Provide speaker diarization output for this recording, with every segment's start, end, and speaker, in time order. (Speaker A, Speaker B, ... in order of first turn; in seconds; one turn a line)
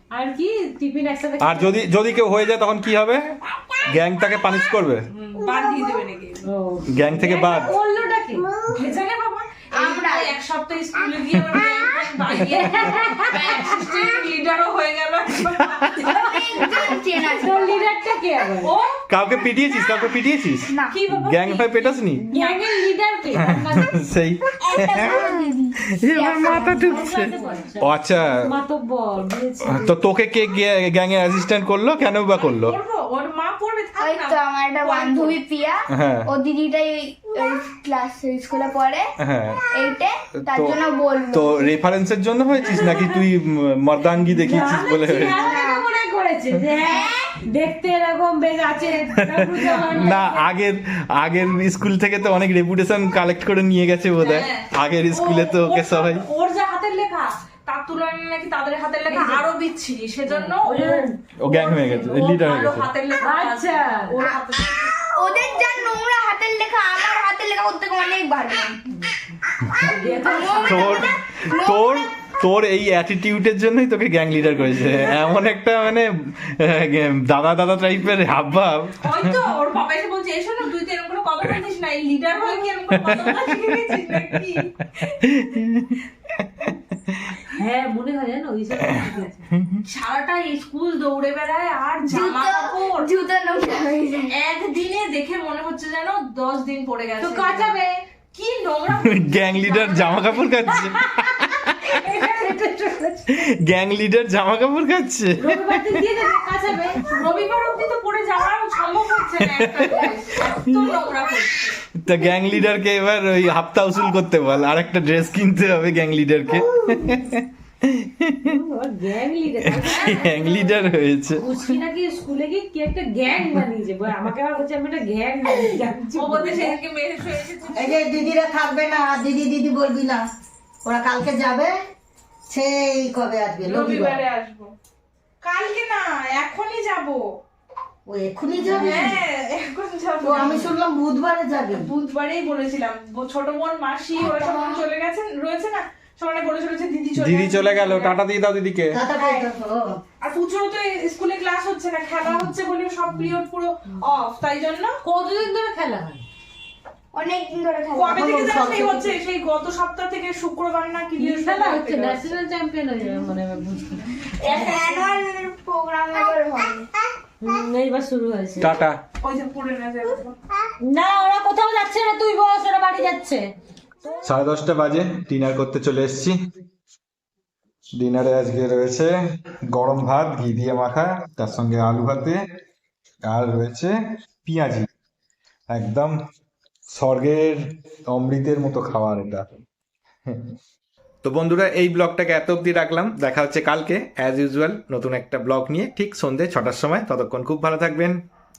Speaker A: 0.1-1.9
Speaker B: 1.4-5.0
Speaker C: 5.1-6.5
Speaker A: 6.4-8.5
Speaker B: 6.9-7.7
Speaker C: 8.7-16.9
Speaker D: 9.8-10.3
Speaker A: 12.3-13.5
Speaker D: 16.1-17.9
Speaker A: 17.2-18.7
Speaker C: 18.6-19.0
Speaker B: 19.1-20.7
Speaker D: 20.6-20.9
Speaker C: 20.9-22.4
Speaker B: 21.2-22.2
Speaker D: 22.3-22.6
Speaker A: 22.3-24.0
Speaker B: 23.3-25.2
Speaker D: 24.6-27.1
Speaker B: 26.0-28.5
Speaker A: 26.4-29.9
Speaker B: 29.6-32.8
Speaker C: 32.4-35.4
Speaker D: 34.0-39.1
Speaker B: 35.9-36.3
Speaker B: 39.2-39.6
Speaker D: 39.7-41.8
Speaker B: 40.5-40.8
Speaker B: 41.3-45.5
Speaker A: 44.3-50.3
Speaker D: 45.1-45.8
Speaker D: 46.8-47.3
Speaker B: 49.3-56.2
Speaker C: 49.5-50.3
Speaker C: 54.2-65.1
Speaker A: 59.1-59.5
Speaker A: 60.2-61.1
Speaker B: 61.4-62.9
Speaker A: 63.2-64.1
Speaker D: 65.1-68.8
Speaker D: 69.7-72.1
Speaker A: 69.8-71.1
Speaker B: 70.6-79.3
Speaker C: 79.0-84.7
Speaker B: 83.0-83.4
Speaker B: 85.0-86.0
Speaker B: 86.6-87.1
Speaker A: 87.5-89.4
Speaker C: 89.8-93.1
Speaker D: 92.1-94.4
Speaker C: 94.3-100.5
Speaker A: 97.2-97.7
Speaker B: 98.9-101.0
Speaker A: 100.7-103.4
Speaker B: 103.4-105.7
Speaker A: 105.4-107.2
Speaker C: 107.0-111.8
Speaker B: 109.4-110.1
Speaker B: 112.0-118.5
Speaker A: 118.4-120.6
Speaker B: 119.7-121.6
Speaker C: 119.8-120.7
Speaker A: 121.4-126.8
Speaker C: 126.1-128.1
Speaker E: 127.7-130.2
Speaker E: 130.8-131.7
Speaker E: 132.5-134.2
Speaker C: 133.6-134.7
Speaker C: 135.4-137.3
Speaker E: 138.1-139.2
Speaker C: 138.7-140.8
Speaker E: 140.2-141.9
Speaker C: 141.7-148.2
Speaker D: 144.2-144.7
Speaker B: 147.2-149.0
Speaker E: 148.9-150.0
Speaker C: 150.2-154.9
Speaker A: 155.0-156.2
Speaker D: 157.1-158.6
Speaker C: 157.9-162.3
Speaker E: 158.3-159.0
Speaker A: 161.2-165.0
Speaker D: 164.4-166.9
Speaker A: 167.4-168.8
Speaker B: 168.6-169.0
Speaker C: 169.2-170.4
Speaker A: 170.8-173.5
Speaker B: 174.2-176.3
Speaker B: 177.9-179.1
Speaker B: 179.7-182.4
Speaker B: 183.2-183.9
Speaker B: 184.4-184.9
Speaker B: 185.7-186.1
Speaker B: 186.9-189.5
Speaker B: 191.2-198.2